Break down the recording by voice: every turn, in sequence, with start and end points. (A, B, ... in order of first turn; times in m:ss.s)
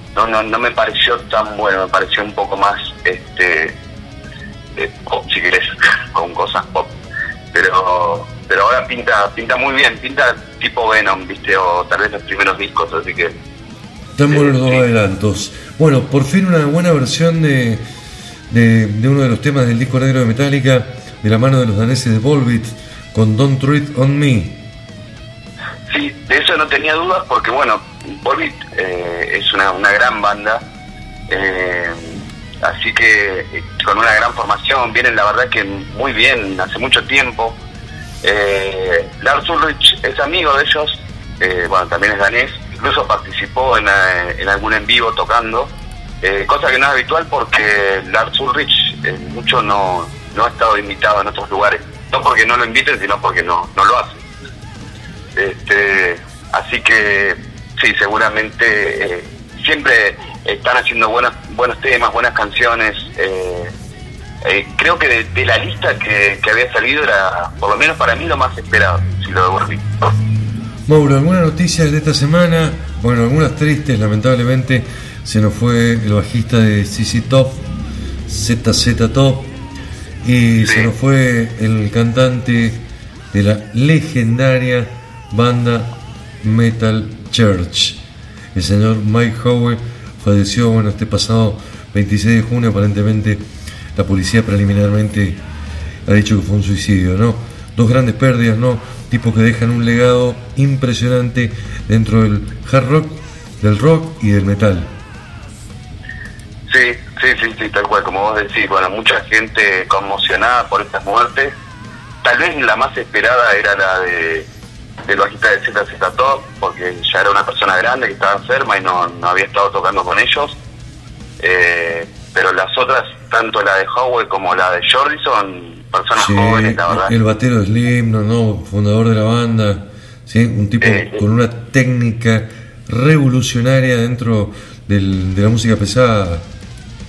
0:00.2-0:03.8 A
0:04.8-0:06.9 A
0:07.5-0:13.4 A
0:14.2-0:17.8 B
0:14.3-0:14.8 A
0:18.5-0:24.6 B
0:25.9-0:30.6 A
0:31.3-0:37.6 A
0:38.2-0:45.7 A
0:46.2-0:54.2 A
0:55.4-1:03.7 A
1:04.4-1:10.1 A
1:10.9-1:17.6 B
1:18.3-1:19.5 B
1:20.2-1:25.9 B
1:26.4-1:28.0 B
1:28.6-1:33.4 B
1:34.0-1:35.4 B
1:36.1-1:44.9 B
1:46.7-1:51.5 A
1:52.2-1:54.5 A
1:55.1-2:00.6 A
2:01.4-2:07.1 A
2:06.2-2:16.4 B
2:10.8-2:11.2 A